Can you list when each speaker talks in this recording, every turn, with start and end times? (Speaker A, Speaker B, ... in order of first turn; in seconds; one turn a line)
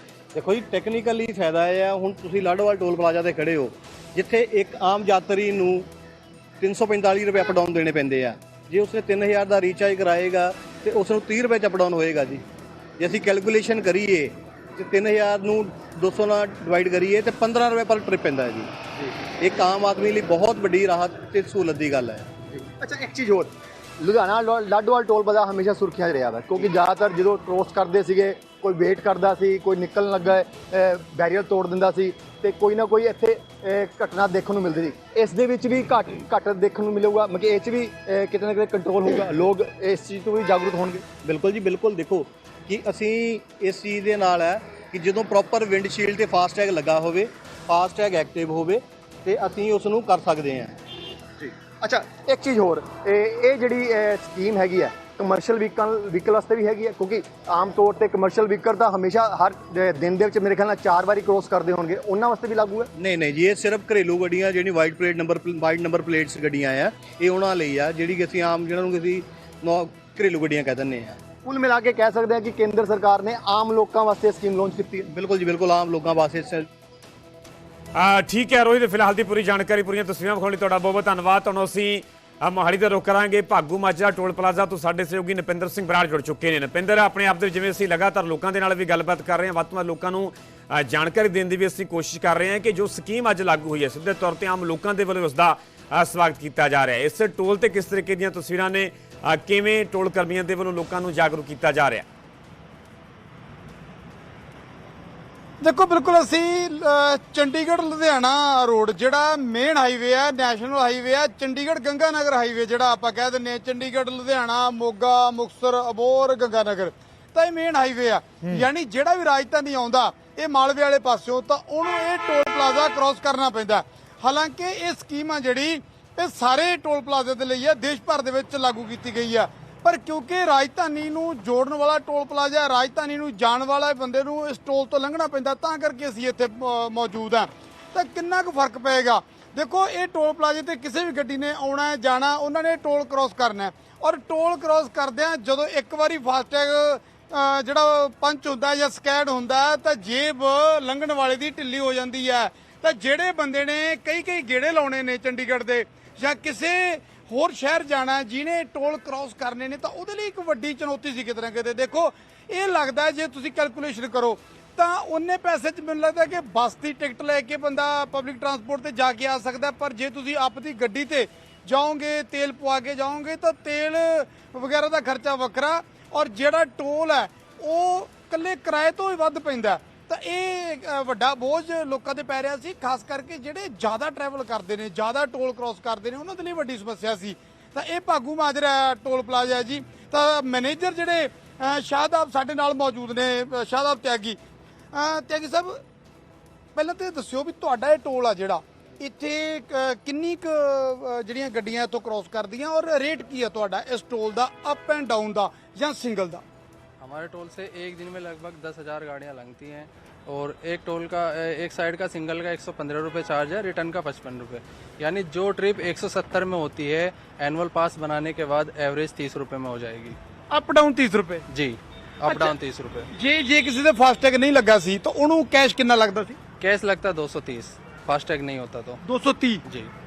Speaker A: 0.3-5.9
Speaker A: 6.6-12.4
Speaker A: 13.0-18.7
Speaker A: 19.4-22.4
Speaker B: 22.7-41.1
Speaker A: 41.2-50.8
Speaker B: 51.4-62.9
Speaker A: 63.0-71.2
Speaker B: 71.5-75.1
Speaker A: 75.1-76.7
Speaker C: 78.0-102.0
Speaker D: 105.6-194.4
Speaker D: 194.9-195.8
Speaker D: 196.8-206.4
Speaker E: 207.0-220.2
Speaker D: 220.5-221.4
Speaker E: 221.5-223.1
Speaker D: 222.3-222.6
Speaker D: 223.1-226.4
Speaker E: 226.6-229.0
Speaker D: 229.0-229.6